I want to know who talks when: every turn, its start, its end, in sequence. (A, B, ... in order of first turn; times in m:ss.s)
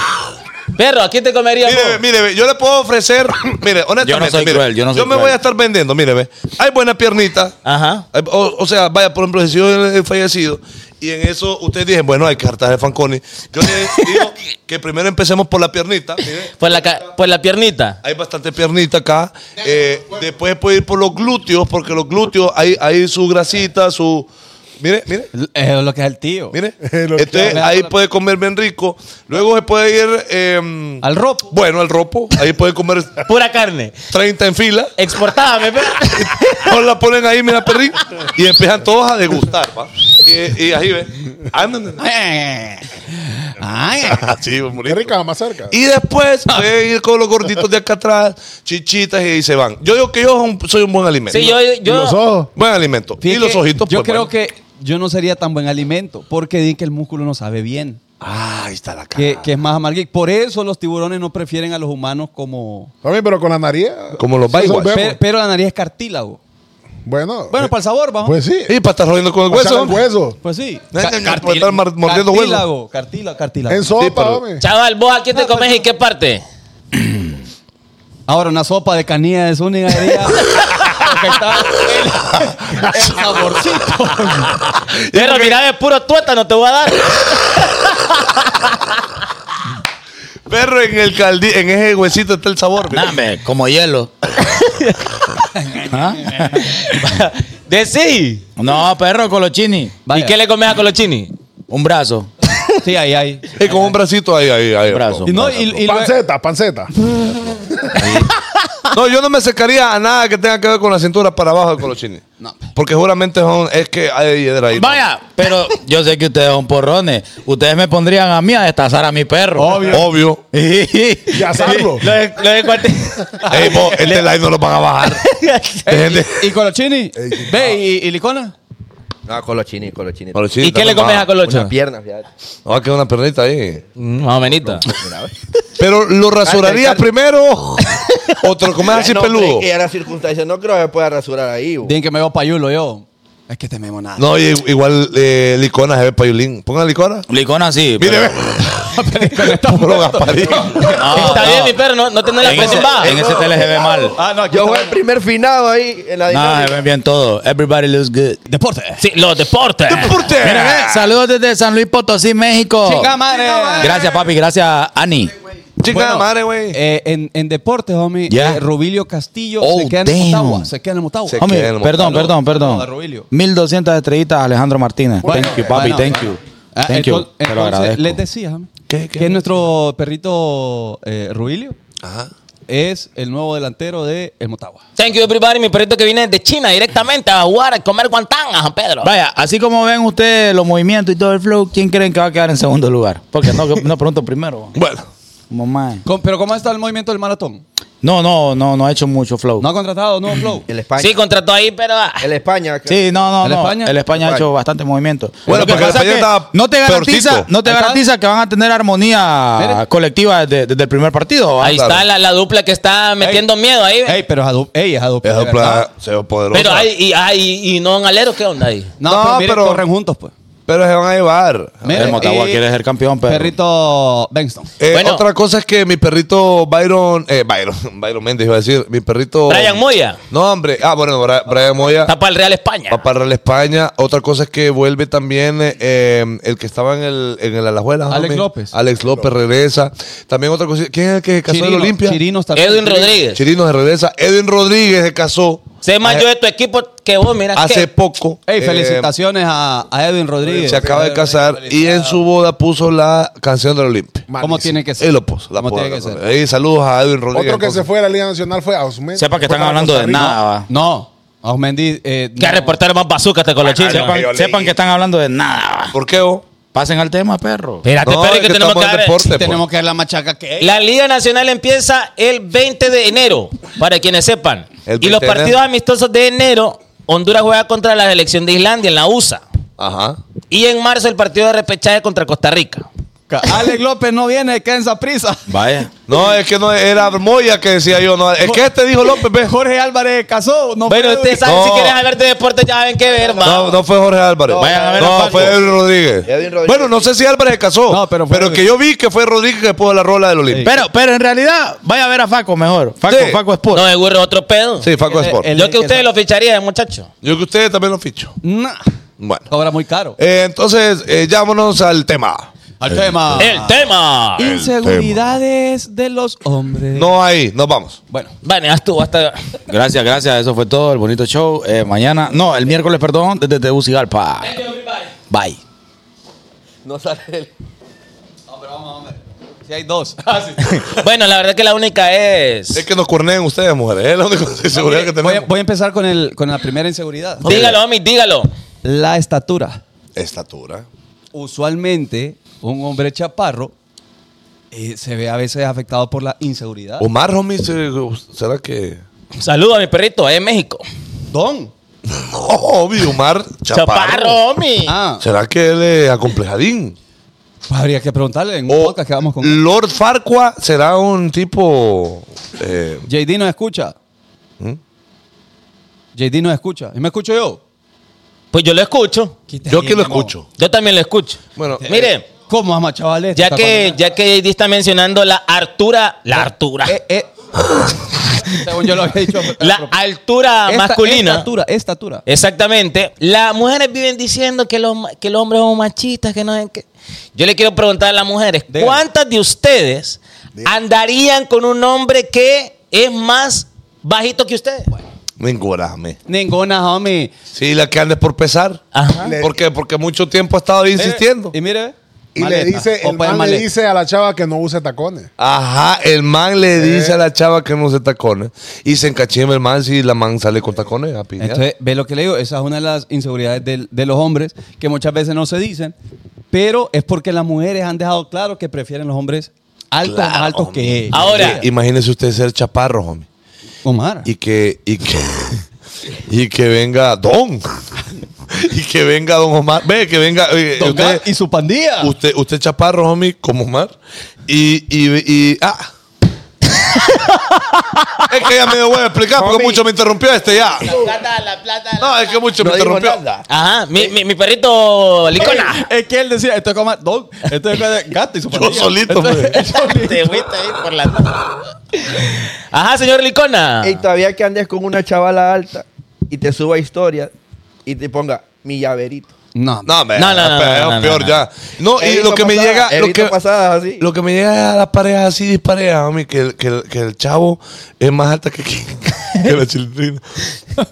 0:00.8-0:02.0 A
0:01.6-0:07.5 B
0:04.0-0:05.4 C
0:07.6-0:08.1 A
0:08.1-0:16.5 B
0:16.6-0:18.0 A
0:18.0-0:24.3 B
0:24.8-0:25.3 B
0:25.3-0:26.6 D
0:26.5-0:33.3 B
0:26.8-0:27.6 E
0:27.4-0:27.9 D
0:31.0-0:31.6 D
0:33.3-0:34.1 A
0:34.1-0:35.0 B
0:35.0-0:36.8 A
0:36.1-0:42.0 B
0:42.0-0:44.2 D
0:44.1-0:45.2 B
0:44.9-0:45.8 E
0:45.7-0:51.6 B
0:51.3-0:52.2 A
0:51.9-0:52.5 E
0:52.6-0:54.3 B
0:53.2-0:58.0 D
0:58.2-0:59.5 B
0:59.2-1:02.9 D
1:03.0-1:05.2 E
1:04.2-1:05.0 B
1:04.5-1:06.4 D
1:07.0-1:07.7 E
1:07.5-1:08.4 D
1:08.2-1:08.8 E
1:08.7-1:10.0 B
1:09.5-1:10.4 E
1:10.4-1:14.0 D
1:10.9-1:12.7 B
1:13.7-1:14.6 E
1:14.0-1:14.4 B
1:14.6-1:16.4 A
1:15.4-1:15.7 D
1:18.3-1:24.7 D
1:24.9-1:25.6 B
1:25.1-1:28.7 A
1:30.5-1:33.1 B
1:32.9-1:34.1 C
1:34.4-1:35.0 A
1:35.9-1:36.7 C
1:36.6-1:38.4 A
1:38.6-1:40.0 C
1:40.1-1:40.4 D
1:40.1-1:41.3 A
1:41.7-1:42.3 C
1:42.8-1:43.9 D
1:43.6-1:45.3 B
1:44.9-1:45.9 C
1:45.3-1:46.2 D
1:45.8-1:46.9 E
1:47.8-1:48.2 E
1:48.9-1:52.2 B
1:52.4-1:52.7 D
1:52.8-1:55.0 B
1:54.7-2:00.0 C
1:59.6-2:00.1 D
1:59.9-2:00.4 B
2:00.5-2:02.0 C
2:01.3-2:02.1 E
2:01.7-2:04.3 A
2:03.5-2:05.2 B
2:05.0-2:05.9 A
2:05.8-2:08.5 D
2:05.9-2:06.5 B
2:07.2-2:07.7 E
2:09.3-2:10.5 F
2:10.3-2:11.4 B
2:10.6-2:11.7 A
2:11.4-2:12.3 F
2:12.7-2:13.8 B
2:14.0-2:14.9 A
2:14.8-2:15.3 F
2:15.8-2:19.7 B
2:16.4-2:17.1 F
2:18.9-2:22.0 F
2:21.8-2:24.3 D
2:24.2-2:27.3 B
2:27.3-2:28.4 C
2:28.0-2:31.0 B
2:28.8-2:31.5 D
2:30.9-2:31.8 C
2:31.1-2:33.2 A
2:32.4-2:34.2 C
2:32.7-2:36.8 F
2:34.1-2:35.0 D
2:36.3-2:38.4 C
2:38.5-2:39.0 D
2:39.0-2:40.3 A
2:39.9-2:41.1 B
2:40.4-2:43.2 C
2:42.8-2:44.0 D
2:43.8-2:45.3 C
2:45.8-2:46.8 B
2:45.8-2:53.3 D
2:48.3-2:48.6 C
2:49.6-2:50.7 C
2:51.3-2:52.3 B
2:51.4-2:58.2 C
2:55.2-3:01.8 D
2:58.9-2:59.4 B
3:02.0-3:02.3 B
3:02.7-3:04.8 D
3:05.0-3:09.1 A
3:09.0-3:14.8 C
3:14.8-3:15.1 B
3:15.5-3:16.0 C
3:16.0-3:17.6 D
3:18.0-3:19.7 C
3:19.6-3:20.7 D
3:20.7-3:21.2 F
3:21.0-3:22.3 A
3:22.2-3:23.0 F
3:22.9-3:31.9 C
3:23.4-3:24.0 D
3:24.2-3:24.4 F
3:25.5-3:27.5 B
3:25.5-3:25.8 D
3:27.6-3:28.0 D
3:29.6-3:29.8 D
3:31.6-3:34.2 A
3:31.7-3:32.0 B
3:34.0-3:35.9 D
3:35.2-3:36.9 B
3:36.5-3:39.0 A
3:39.0-3:40.3 D
3:39.0-3:39.8 B
3:40.7-3:42.2 B
3:41.8-3:42.6 D
3:41.9-3:43.5 C
3:43.3-3:44.7 D
3:44.8-3:52.1 B
3:44.9-3:45.3 A
3:49.5-3:50.2 A
3:52.1-3:53.1 A
3:52.9-4:02.2 B
3:58.1-3:58.8 D
4:01.5-4:03.2 D
4:02.6-4:03.4 A
4:03.3-4:06.3 B
4:05.8-4:07.9 A
4:07.6-4:09.1 B
4:08.5-4:12.2 D
4:10.5-4:14.3 B
4:10.6-4:11.0 E
4:14.3-4:14.8 E
4:14.4-4:16.2 D
4:15.0-4:17.9 B
4:17.3-4:20.4 E
4:19.2-4:20.7 C
4:20.7-4:22.8 D
4:22.4-4:24.2 A
4:23.8-4:26.0 C
4:23.9-4:24.8 E
4:25.9-4:26.4 B
4:26.7-4:27.8 C
4:27.8-4:29.2 A
4:28.0-4:29.6 B
4:29.3-4:30.8 D
4:30.6-4:39.4 A
4:34.9-4:35.6 B
4:39.8-4:40.2 B
4:40.5-4:42.9 A
4:43.3-4:45.5 D
4:45.5-4:45.9 C
4:46.1-4:49.6 B
4:48.4-4:51.5 D
4:50.9-4:53.8 A
4:51.4-4:52.0 B
4:53.1-4:53.9 F
4:53.4-5:00.7 B
4:54.4-4:57.2 F
4:54.6-4:55.7 C
4:57.9-4:58.7 D
5:00.5-5:00.8 D
5:00.6-5:03.9 C
5:03.1-5:03.4 B
5:03.7-5:04.9 A
5:04.8-5:05.5 B
5:05.0-5:06.1 D
5:05.5-5:07.1 A
5:07.2-5:08.4 B
5:08.4-5:08.9 D
5:09.2-5:09.5 B
5:09.5-5:10.2 D
5:10.2-5:12.5 B
5:12.8-5:13.8 D
5:13.0-5:13.4 B
5:13.4-5:14.5 A
5:14.4-5:17.1 D
5:14.4-5:15.4 B
5:16.9-5:18.0 B
5:18.4-5:19.4 A
5:19.7-5:24.6 C
5:24.5-5:25.1 A
5:25.3-5:25.6 C
5:26.8-5:27.5 F
5:28.5-5:30.7 D
5:30.6-5:32.8 A
5:32.7-5:35.5 B
5:34.7-5:37.7 D
5:37.4-5:37.8 B
5:37.4-5:38.5 A
5:38.8-5:39.8 D
5:40.2-5:40.8 B
5:41.3-5:43.7 D
5:44.7-5:47.1 D
5:47.0-5:49.0 B
5:49.4-5:50.8 A
5:51.3-5:51.7 D
5:52.1-5:54.4 B
5:53.7-5:55.0 A
5:54.9-5:55.2 D
5:55.2-5:57.0 B
5:57.7-5:59.6 D
5:58.7-6:03.0 B
6:03.1-6:04.0 D
6:06.2-6:07.6 D
6:08.5-6:09.4 A
6:09.5-6:10.3 D
6:09.7-6:10.5 B
6:10.6-6:12.3 A
6:11.6-6:12.0 B
6:11.8-6:14.0 D
6:13.4-6:17.0 A
6:16.3-6:17.3 D
6:18.4-6:19.9 D
6:19.6-6:21.5 A
6:20.7-6:22.2 D
6:22.3-6:34.9 A
6:28.7-6:29.0 D
6:35.4-6:36.2 B
6:36.3-6:37.3 D
6:37.5-6:38.8 B
6:38.9-6:39.4 A
6:39.2-6:39.6 E
6:39.4-6:41.6 B
6:41.0-6:43.7 D
6:42.4-6:45.3 E
6:45.4-6:51.6 B
6:46.8-6:47.2 E
6:51.4-6:56.0 D
6:56.5-7:01.7 D
7:00.0-7:03.3 B
7:01.1-7:01.6 A
7:03.8-7:04.3 D
7:04.2-7:05.6 B
7:06.3-7:07.7 B
7:08.5-7:11.2 B
7:10.8-7:12.1 D
7:12.0-7:13.9 B
7:14.5-7:15.9 B
7:16.8-7:18.3 A
7:18.3-7:20.9 B
7:19.4-7:19.8 F
7:20.8-7:22.2 A
7:22.0-7:23.2 B
7:22.6-7:23.5 F
7:23.5-7:25.8 A
7:25.4-7:30.4 D
7:28.5-7:29.7 B
7:29.7-7:34.0 A
7:33.8-7:37.3 F
7:37.8-7:39.3 F
7:39.6-7:39.9 D
7:39.8-7:43.4 B
7:40.2-7:41.4 A
7:42.0-7:44.1 F
7:44.0-7:50.2 B